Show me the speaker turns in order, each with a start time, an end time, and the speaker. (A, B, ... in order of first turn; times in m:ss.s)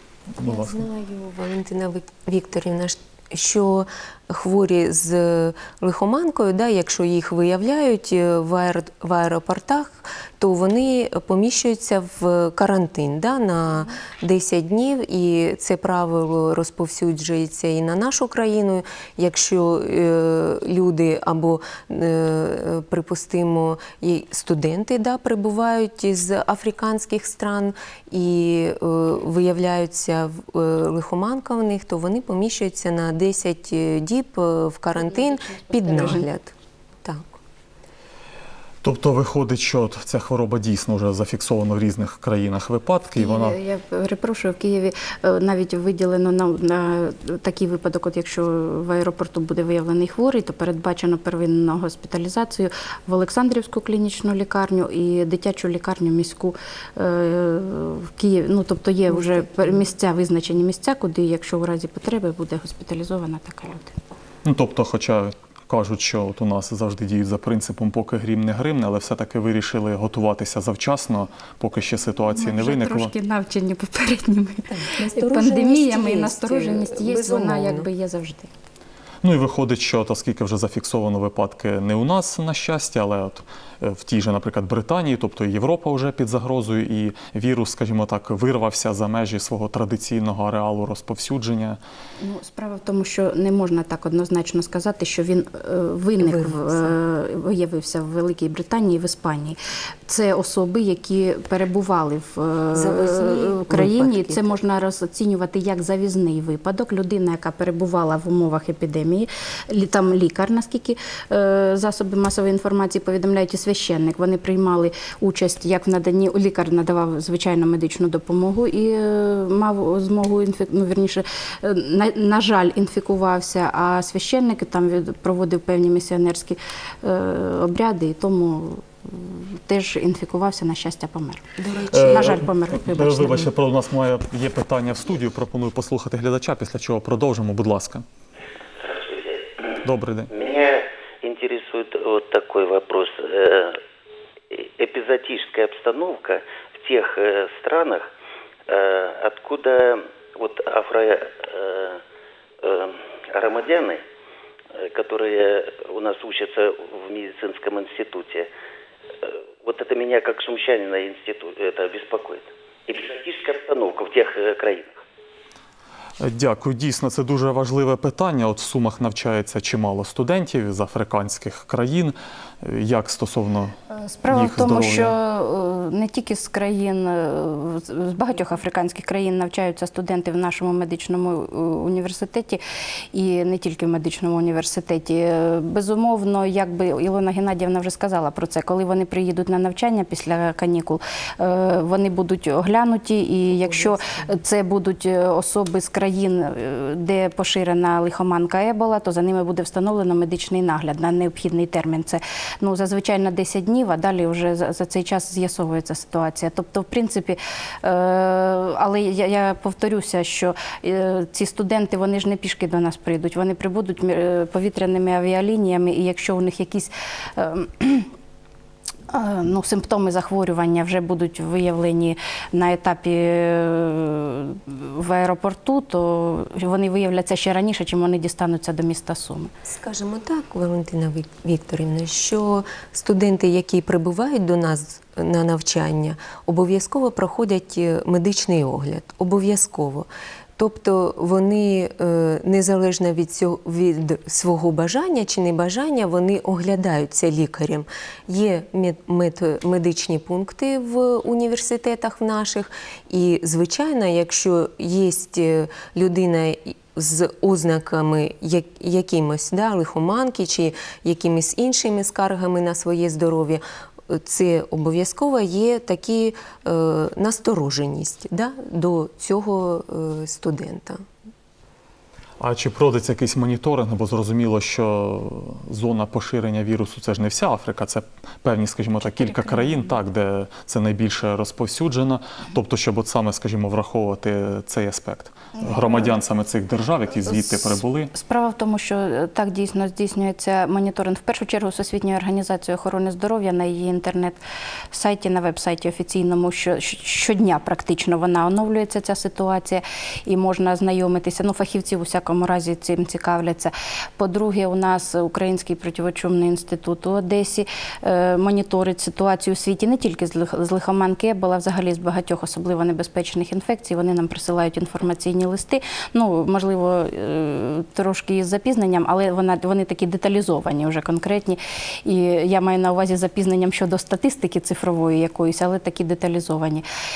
0:00.4-0:00.8 A
0:00.4-0:36.5 B
0:35.0-0:36.3 C
0:37.0-0:37.4 B
0:38.8-0:43.6 A
0:43.2-1:04.0 C
0:59.1-0:59.8 B
1:04.4-1:13.1 A
1:12.4-1:18.5 C
1:14.7-1:17.9 B
1:19.2-1:31.8 A
1:32.2-2:13.5 C
1:36.2-1:37.0 B
1:42.7-1:44.6 B
2:11.6-2:12.0 B
2:11.9-2:18.0 A
2:18.8-2:19.4 D
2:19.8-2:20.3 A
2:20.3-2:23.8 D
2:24.5-2:28.1 D
2:28.7-2:32.0 D
2:32.6-2:34.0 D
2:34.8-2:38.5 D
2:39.2-2:45.0 D
2:46.2-2:53.8 A
2:53.9-3:02.6 C
2:54.3-2:55.2 A
3:03.1-3:38.1 C
3:13.7-3:14.2 B
3:39.1-3:49.5 C
3:49.6-4:31.0 B
4:32.4-4:48.1 A
4:39.2-4:39.9 C
4:45.6-4:46.2 C
4:47.3-4:54.4 C
4:54.9-5:26.8 C